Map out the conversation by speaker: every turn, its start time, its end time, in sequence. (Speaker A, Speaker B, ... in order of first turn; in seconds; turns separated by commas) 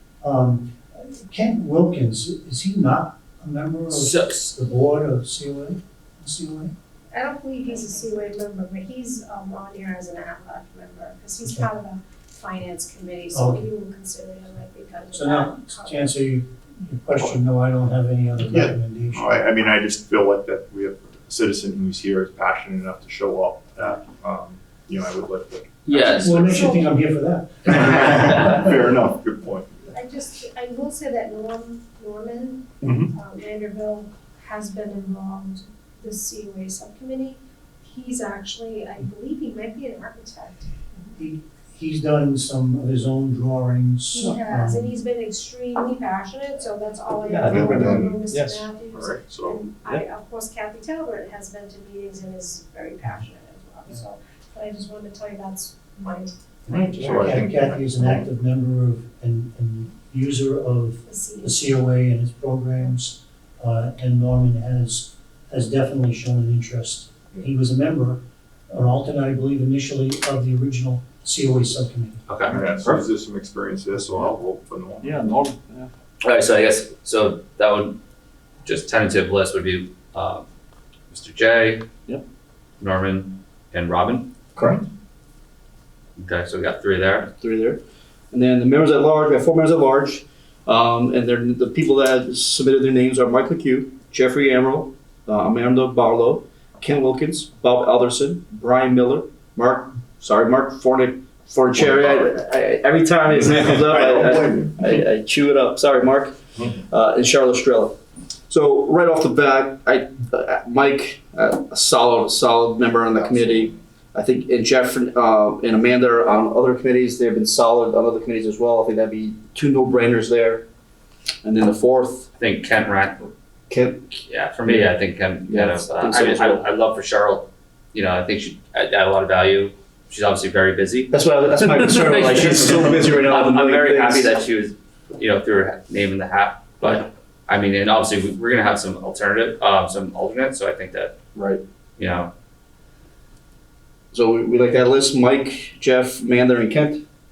Speaker A: 0.2-6.7, Speaker B: 3.9-4.5, Speaker C: 7.1-16.2, Speaker A: 13.3-13.7, Speaker A: 15.1-19.3, Speaker D: 18.5-26.7, Speaker B: 25.9-26.8, Speaker A: 26.1-28.6, Speaker C: 26.4-26.9, Speaker D: 27.7-29.9, Speaker C: 29.9-41.1, Speaker A: 32.8-33.1, Speaker D: 32.8-33.1, Speaker A: 41.1-44.9, Speaker C: 44.1-56.9, Speaker E: 47.2-48.7, Speaker D: 47.5-48.2, Speaker D: 48.9-49.7, Speaker A: 56.7-72.2, Speaker D: 56.9-58.2, Speaker C: 61.0-61.7, Speaker B: 72.3-72.6, Speaker D: 72.5-75.3, Speaker E: 75.0-75.9, Speaker B: 76.2-78.0, Speaker B: 78.6-80.4, Speaker B: 81.1-81.9, Speaker B: 82.8-84.3, Speaker E: 84.6-84.8, Speaker B: 86.2-87.3, Speaker E: 87.4-87.8, Speaker E: 88.3-108.0, Speaker D: 101.9-102.3, Speaker D: 103.5-104.9, Speaker E: 108.5-120.7, Speaker D: 113.0-113.8, Speaker E: 121.4-122.3, Speaker B: 122.4-123.3, Speaker E: 123.7-124.2, Speaker B: 124.3-131.1, Speaker E: 125.5-126.7, Speaker E: 131.1-134.3, Speaker B: 131.7-141.1, Speaker E: 141.3-141.6, Speaker B: 142.0-142.3, Speaker E: 144.1-147.0